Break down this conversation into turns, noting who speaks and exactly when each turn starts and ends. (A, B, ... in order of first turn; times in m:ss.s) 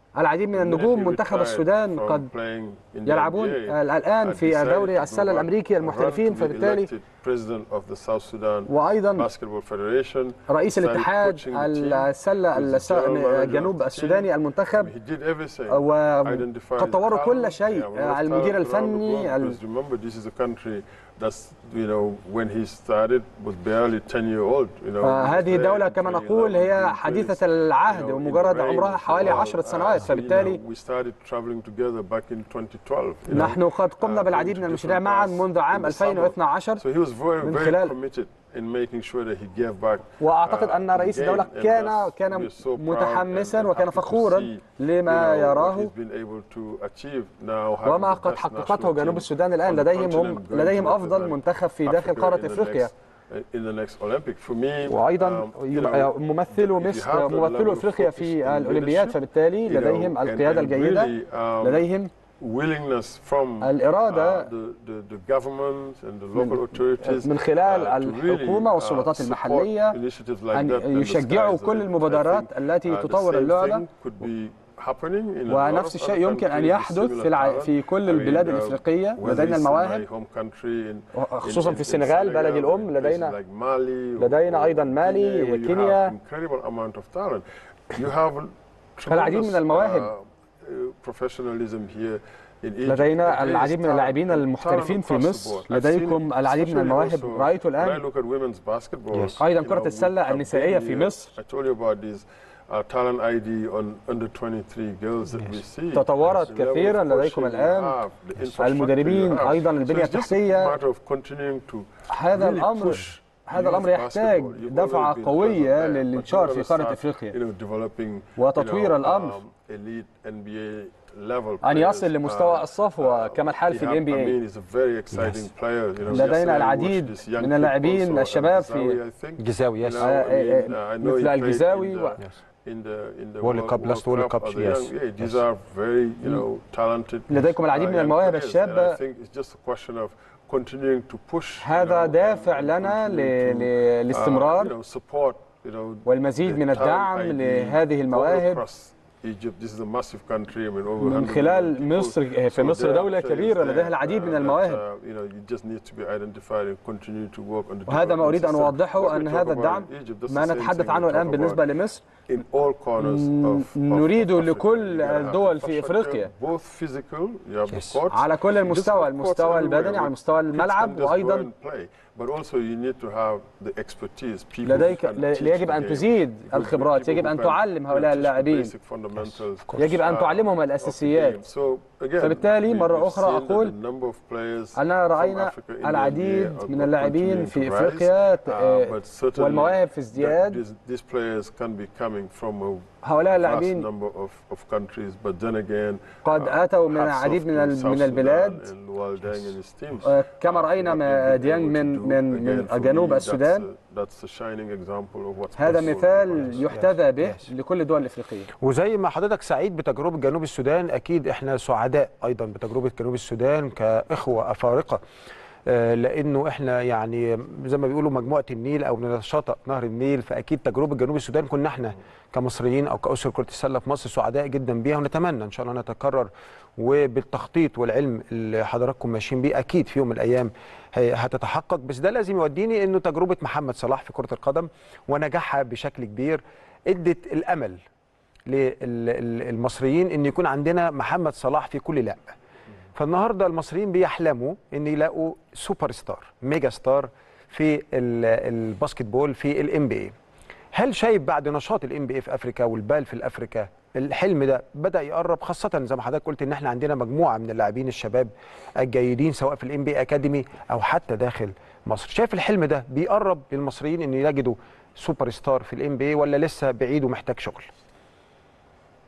0:00.2-0:02.3 A
0:00.5-1:01.9 B
0:03.1-0:06.9 A
0:08.7-0:09.3 A
0:10.5-0:14.9 A
0:15.7-0:19.6 A
0:25.0-0:30.6 A
0:33.3-0:36.8 A
0:37.4-0:38.0 A
0:40.2-0:45.9 A
0:47.8-0:52.9 A
0:54.9-1:02.1 A
1:02.4-2:41.6 B
1:03.6-1:04.5 A
1:06.3-1:10.0 A
1:10.5-1:13.8 A
1:15.5-1:20.0 A
1:21.1-1:23.3 A
1:24.2-1:26.1 A
1:29.1-1:30.1 A
1:32.9-1:38.0 A
1:39.1-1:39.4 C
1:39.4-1:41.3 A
1:45.9-1:48.0 A
1:48.6-1:50.8 A
1:52.1-1:57.4 A
1:58.4-1:59.4 A
2:01.6-2:04.4 A
2:05.1-2:05.5 C
2:06.1-2:09.0 A
2:09.4-2:10.1 C
2:10.0-2:12.2 A
2:13.4-2:15.3 C
2:17.3-2:19.0 A
2:21.6-2:24.7 A
2:26.1-2:28.6 A
2:31.0-2:34.8 A
2:37.9-2:42.0 A
2:42.3-3:26.7 B
2:43.0-2:46.3 A
2:47.7-2:48.0 C
2:48.1-2:51.5 A
2:54.6-2:58.7 A
2:59.2-3:00.0 C
2:59.8-3:01.4 A
3:02.2-3:03.7 A
3:04.8-3:10.6 A
3:13.0-3:13.9 A
3:16.2-3:18.7 A
3:20.0-3:23.6 A
3:25.6-3:28.5 A
3:26.5-3:27.5 C
3:28.6-3:35.0 C
3:35.7-3:57.8 C
3:58.5-4:02.4 C
4:03.0-4:10.1 C
4:10.7-4:27.7 C